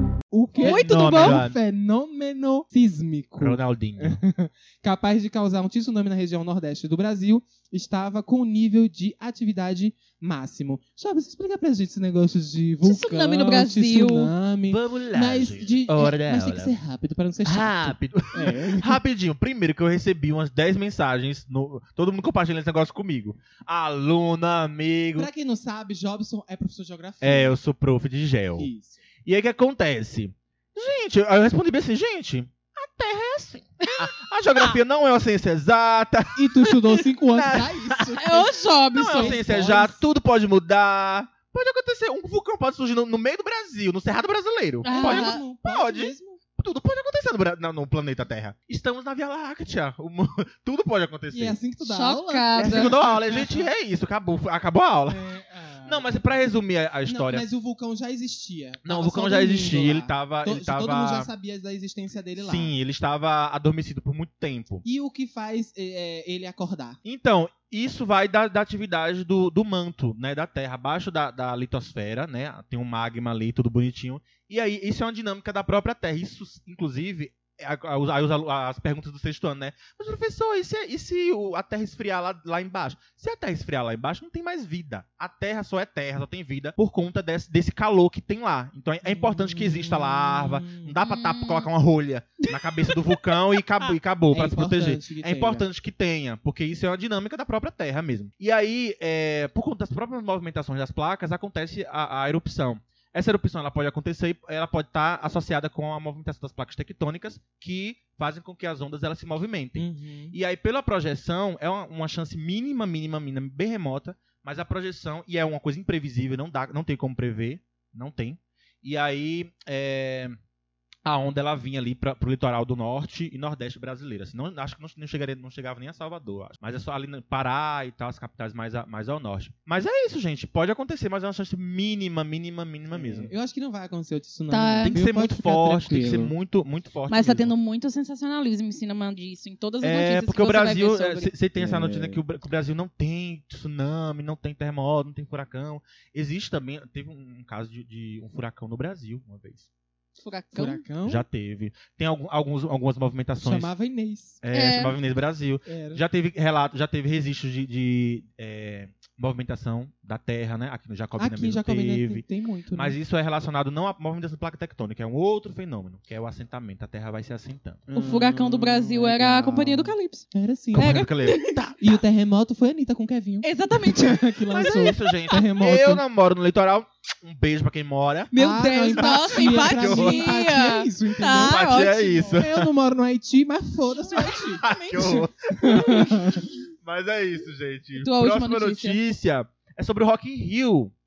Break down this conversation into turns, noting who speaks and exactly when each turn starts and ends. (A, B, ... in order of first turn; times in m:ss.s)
0:00.3-0:19.0 A
0:00.6-0:01.6 B
0:00.6-0:01.4 C
0:03.4-0:04.2 B
0:12.8-0:14.3 C
0:14.7-0:16.8 B
0:17.4-0:25.3 B
0:25.2-0:27.6 A
0:27.2-0:28.7 B
0:28.6-0:29.0 A
0:29.3-0:38.1 B
0:36.4-0:40.0 A
0:38.2-0:39.4 C
0:39.0-0:51.6 B
0:44.8-0:45.4 C
0:44.9-0:46.4 A
0:51.3-0:53.7 A
0:51.8-0:52.9 C
0:52.6-0:55.2 B
0:55.1-0:56.3 A
0:55.9-0:57.5 B
0:57.1-1:02.7 A
0:58.8-1:01.3 B
1:02.4-1:04.8 B
1:04.8-1:07.0 A
1:07.0-2:00.4 B
1:29.0-1:31.0 A
1:31.0-1:31.7 C
1:32.4-1:33.4 C
1:34.3-1:35.7 A
1:49.8-1:50.4 A
2:01.0-2:13.3 B
2:12.9-2:16.4 A
2:14.5-2:15.0 C
2:14.8-2:17.5 B
2:17.1-2:21.3 C
2:19.8-2:29.7 B
2:21.6-2:22.2 A
2:30.2-2:30.8 C
2:30.5-2:31.2 A
2:31.1-2:33.7 B
2:33.4-2:34.4 A
2:34.4-2:42.2 B
2:34.5-2:35.0 C
2:35.7-2:36.0 A
2:41.2-2:43.0 A
2:42.8-2:47.9 B
2:47.9-2:51.0 A
2:47.9-2:50.3 C
2:50.8-2:51.8 B
2:50.8-2:51.6 C
2:51.8-2:56.0 A
2:53.4-2:54.4 C
2:54.5-2:58.3 B
2:58.3-3:02.4 C
2:58.3-3:01.6 A
2:58.8-3:00.4 B
3:01.3-3:02.7 B
3:02.3-3:06.5 A
3:04.1-3:05.2 C
3:04.6-3:10.9 B
3:08.0-3:09.0 C